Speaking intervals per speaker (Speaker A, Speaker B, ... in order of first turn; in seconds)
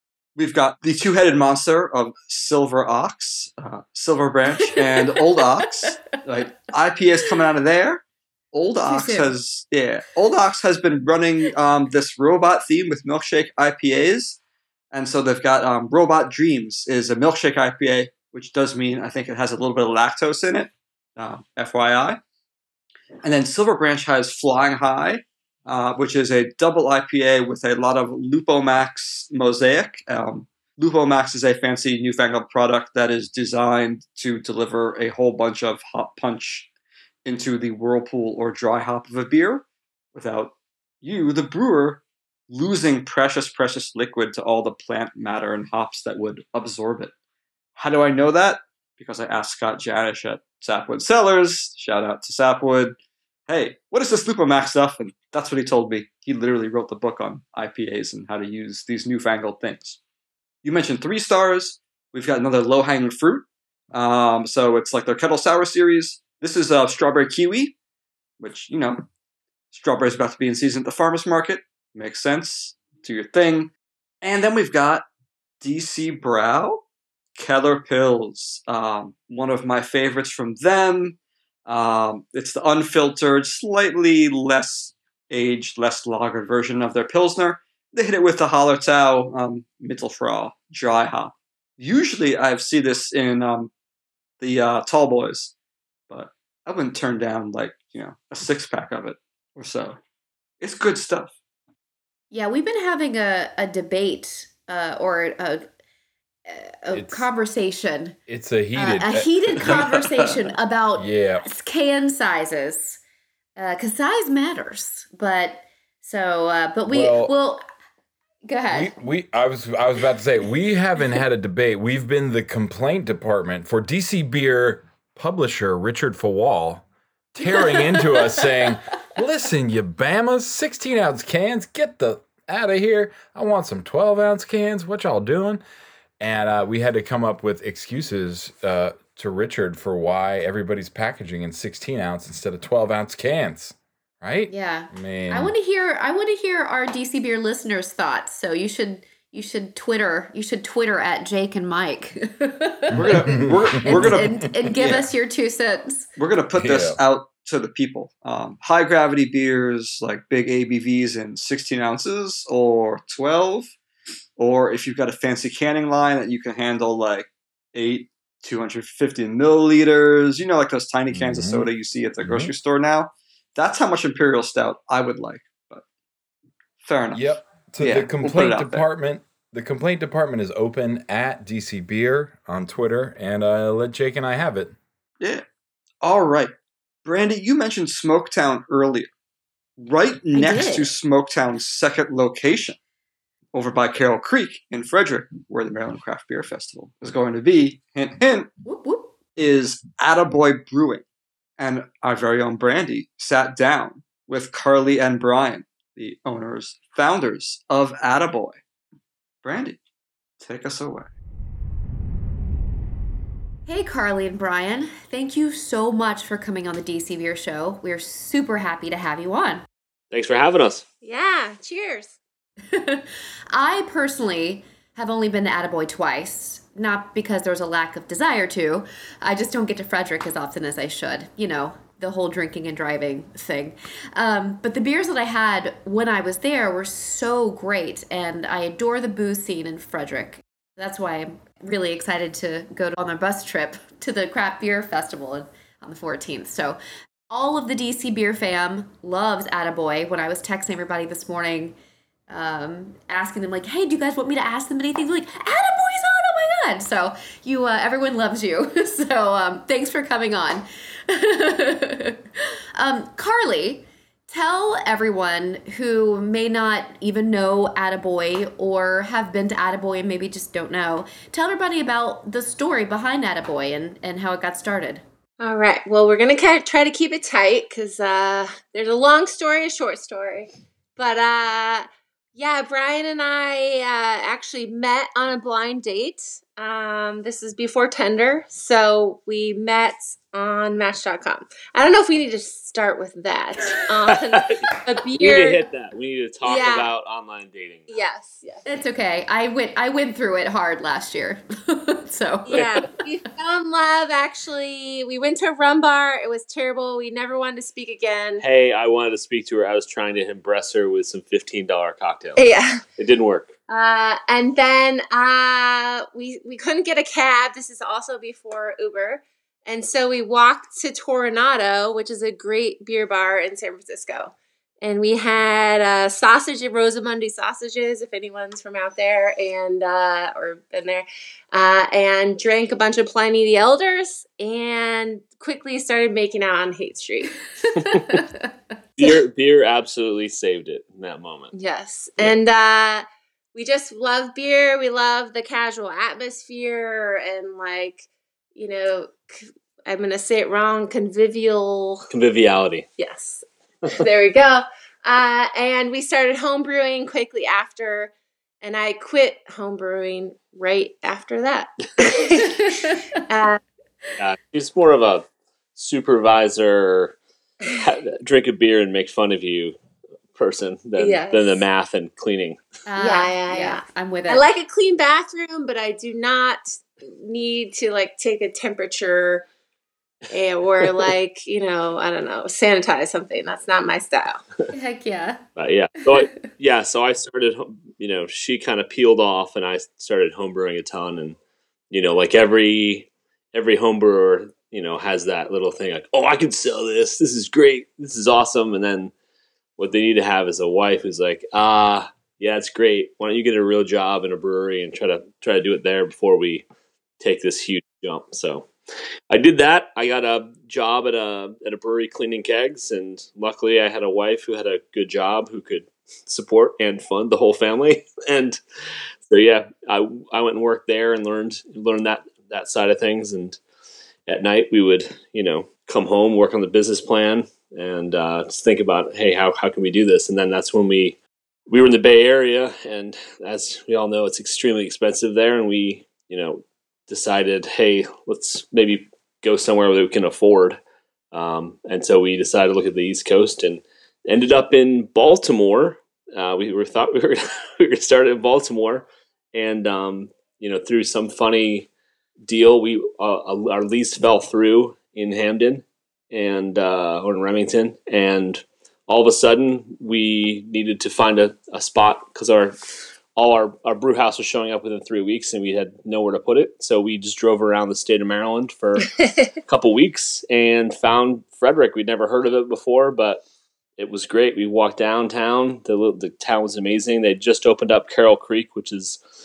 Speaker A: 0.4-14.4, 14.9-22.2, 23.2-36.7, 37.2-47.1, 47.8-53.0, 53.5-60.0, 60.6-67.8, 68.4-69.1, 69.7-75.0, 75.6-76.8, 77.4-93.7, 94.4-95.5, 96.1-100.0, 100.6-101.3, 109.7-110.0, 152.9-155.1, 156.2-163.7, 164.4-175.8, 176.8-178.8, 186.0-186.5, 187.1-189.1, 189.8-192.8, 193.5-198.5, 199.4-201.0, 201.6-208.6, 209.4-209.8, 210.4-211.1
Speaker B: 8.9-9.3, 102.3-105.7, 106.5-108.2, 108.7-113.0, 113.6-117.6, 118.5-118.9, 127.5-128.7, 144.5-156.1, 190.3-190.9, 198.7-199.2, 213.7-219.7, 222.7-246.8, 247.3-251.8, 252.3-262.2, 262.8-275.0, 298.6-302.7, 337.6-338.5, 362.4-363.0, 372.9-374.4, 384.7-385.4
Speaker C: 106.9-107.3, 108.3-109.8, 111.0-111.5, 116.9-117.3, 118.7-135.6, 136.2-145.5, 152.9-155.0, 156.6-157.0, 171.1-171.7, 172.2-172.5, 177.1-184.8
Speaker D: 220.1-220.8, 294.3-294.7, 295.2-297.9, 308.4-312.4, 313.0-313.5, 339.0-341.5, 352.1-352.9, 364.2-369.8, 370.4-372.6, 385.6-391.4, 391.9-399.1, 399.8-406.6, 407.2-408.7, 409.3-418.6, 419.2-423.6, 424.3-431.2, 431.7-440.8, 441.3-451.9, 452.4-462.8, 463.3-473.4, 474.0-479.2
Speaker E: 221.0-222.2, 275.4-295.6, 296.4-296.9, 297.9-298.6, 302.5-308.4, 312.4-312.8, 313.7-337.4, 341.5-352.1, 353.0-363.6, 371.0-371.6, 373.0-379.4, 380.3-384.4, 469.2-469.5